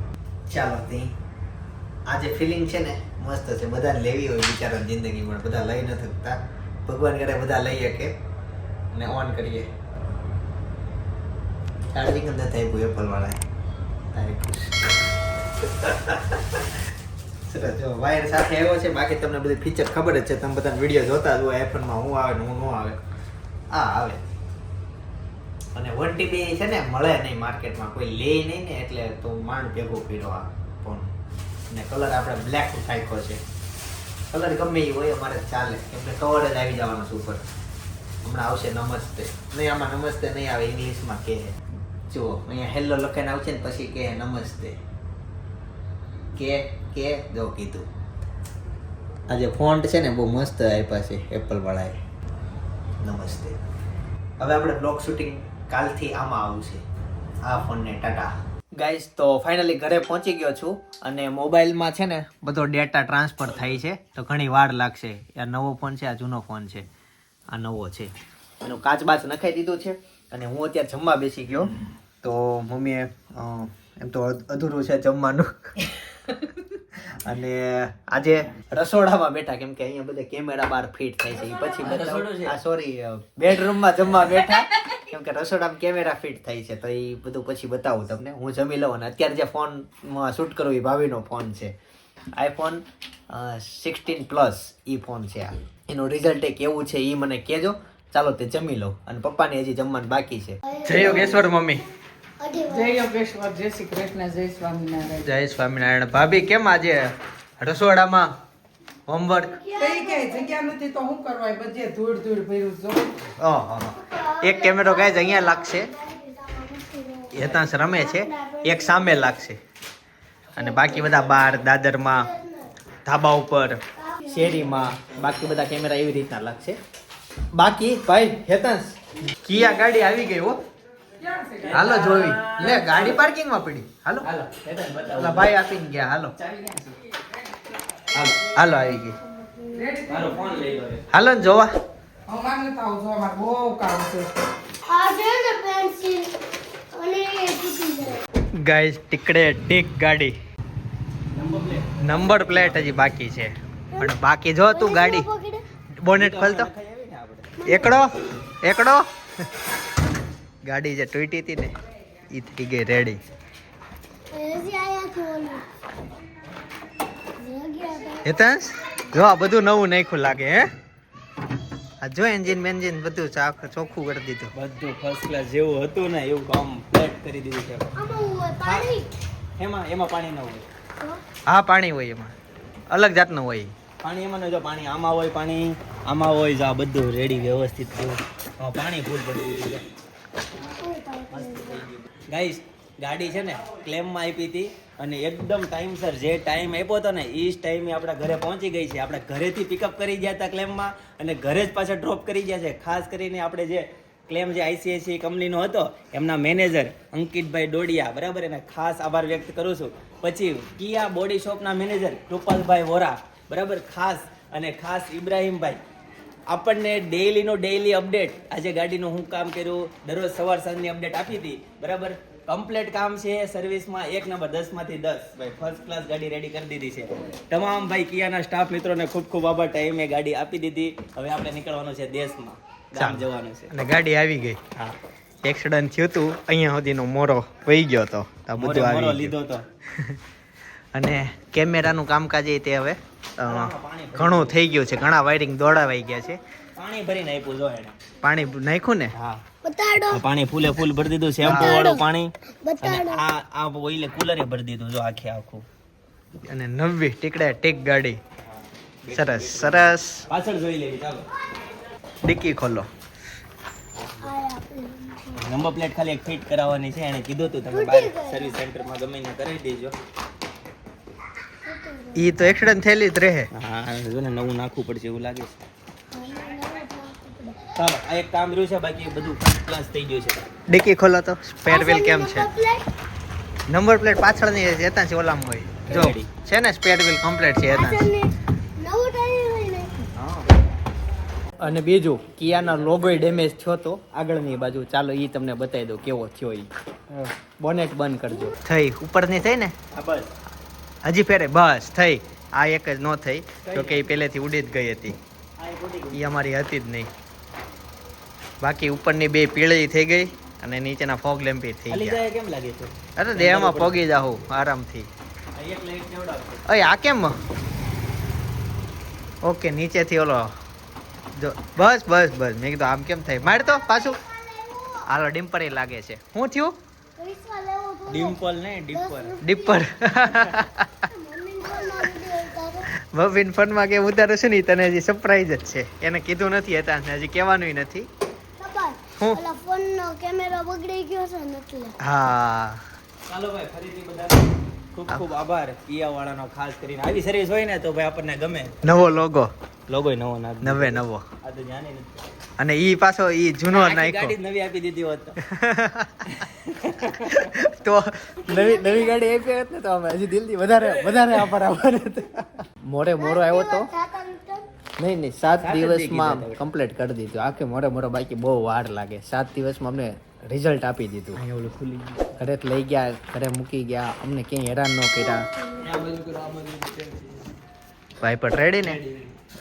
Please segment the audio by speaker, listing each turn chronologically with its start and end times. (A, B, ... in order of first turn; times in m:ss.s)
0:00.5-0:01.1 A
0:02.1-0:08.1 A
0:08.9-0:09.7 A
0:11.9-0:13.4 A
0:14.1-0:15.0 A
0:15.8-0:16.6 A
0:17.5-0:23.0 A
0:23.7-0:24.3 A
0:25.7-0:31.1 A
0:31.7-0:33.4 A
0:34.3-0:37.4 A
0:38.2-0:44.8 A
0:46.4-0:47.9 A
0:49.3-0:52.0 A
0:53.0-0:53.6 A
0:54.4-0:56.8 A
0:57.4-1:06.9 A
1:07.5-1:15.7 A
1:17.0-1:31.7 A
1:21.8-1:22.5 B
1:32.3-1:41.8 A
1:40.6-1:41.5 C
1:42.4-1:43.0 C
1:42.7-1:45.3 D
1:45.2-1:48.3 A
1:49.1-1:49.5 A
1:49.5-1:50.5 C
1:49.8-1:53.1 D
1:53.4-1:55.9 A
1:53.8-1:59.3 C
1:57.3-1:59.6 A
2:00.6-2:02.3 A
2:00.6-2:01.1 C
2:02.1-2:02.7 C
2:03.0-2:06.8 A
2:04.0-2:04.8 C
2:07.5-2:10.6 A
2:11.2-2:12.1 D
2:11.6-2:13.2 B
2:11.7-2:14.3 A
2:14.2-2:15.5 B
2:15.2-2:16.3 A
2:16.4-2:17.0 B
2:18.1-2:18.4 B
2:18.5-2:19.2 A
2:19.7-2:20.5 D
2:20.1-2:21.0 B
2:21.1-2:21.7 A
2:22.3-2:24.3 D
2:24.8-2:26.4 C
2:26.9-2:28.2 C
2:28.6-2:30.3 A
2:31.3-2:33.1 B
2:32.0-2:35.3 A
2:34.7-2:35.6 C
2:36.0-2:36.7 A
2:36.1-2:37.6 B
2:37.6-2:38.0 C
2:37.6-2:39.0 A
2:40.6-2:41.7 A
2:42.3-2:43.2 A
2:44.3-2:45.6 C
2:47.4-2:48.3 C
2:48.2-2:50.7 A
2:52.0-2:54.5 A
2:54.5-2:57.9 B
2:58.0-2:59.1 C
2:58.6-2:58.9 B
2:59.6-3:00.6 B
3:01.5-3:02.3 A
3:02.9-3:03.7 A
3:04.0-3:09.8 B
3:10.8-3:11.8 C
3:11.3-3:35.8 B
3:36.5-3:53.7 B
3:53.0-3:54.7 A
3:55.4-3:59.3 A
3:58.6-3:59.6 B
4:00.9-4:06.4 A
4:03.4-4:04.6 B
4:06.8-4:08.0 B
4:08.2-4:09.1 A
4:09.1-4:09.4 B
4:09.6-4:10.2 C
4:10.1-4:15.6 B
4:11.4-4:11.9 A
4:11.4-4:12.0 C
4:12.6-4:13.2 C
4:16.5-4:18.2 A
4:19.0-4:21.3 B
4:19.1-4:20.2 A
4:22.2-4:22.9 A
4:24.0-4:24.3 B
4:24.2-4:25.5 C
4:25.4-4:30.0 B
4:27.7-4:28.6 C
4:31.6-4:32.4 C
4:32.1-4:33.5 A
4:33.5-4:35.6 B
4:36.1-4:37.8 C
4:37.7-4:40.4 B
4:40.7-4:42.5 A
4:41.6-4:42.9 C
4:43.7-4:48.1 A
4:45.9-4:46.3 B
4:47.7-4:50.0 C
4:50.2-4:50.5 A
4:51.6-4:56.7 A
4:52.4-4:53.2 B
4:57.6-4:59.7 A
4:59.9-5:00.3 B
5:01.0-5:05.2 A
5:03.6-5:04.0 B
5:05.6-5:06.2 B
5:06.1-5:07.1 A
5:08.6-5:12.2 A
5:11.9-5:14.0 B
5:13.2-5:15.1 A
5:15.5-5:16.6 B
5:16.6-5:17.4 A
5:19.4-5:20.5 A
5:21.3-5:24.2 A
5:23.7-5:25.0 C
5:25.0-5:26.8 A
5:27.2-5:28.4 C
5:28.1-5:29.4 B
5:28.9-5:29.8 C
5:29.4-5:31.0 A
5:31.1-5:32.9 C
5:33.0-5:38.1 A
5:38.6-5:42.0 C
5:42.0-5:42.8 A
5:43.3-5:48.8 B
5:48.8-5:49.5 A
5:49.9-5:52.2 B
5:50.6-5:51.2 A
5:52.6-5:54.4 A
5:53.7-5:55.4 B
5:55.4-5:56.2 A
5:56.3-5:57.5 B
5:57.0-6:03.9 A
5:58.5-5:59.1 C
6:03.2-6:04.6 C
6:05.0-6:11.4 A
6:05.6-6:06.6 B
6:11.3-6:12.3 B
6:12.4-6:15.5 A
6:15.2-6:15.9 C
6:15.8-6:17.5 B
6:18.2-6:19.0 A
6:18.8-6:19.3 B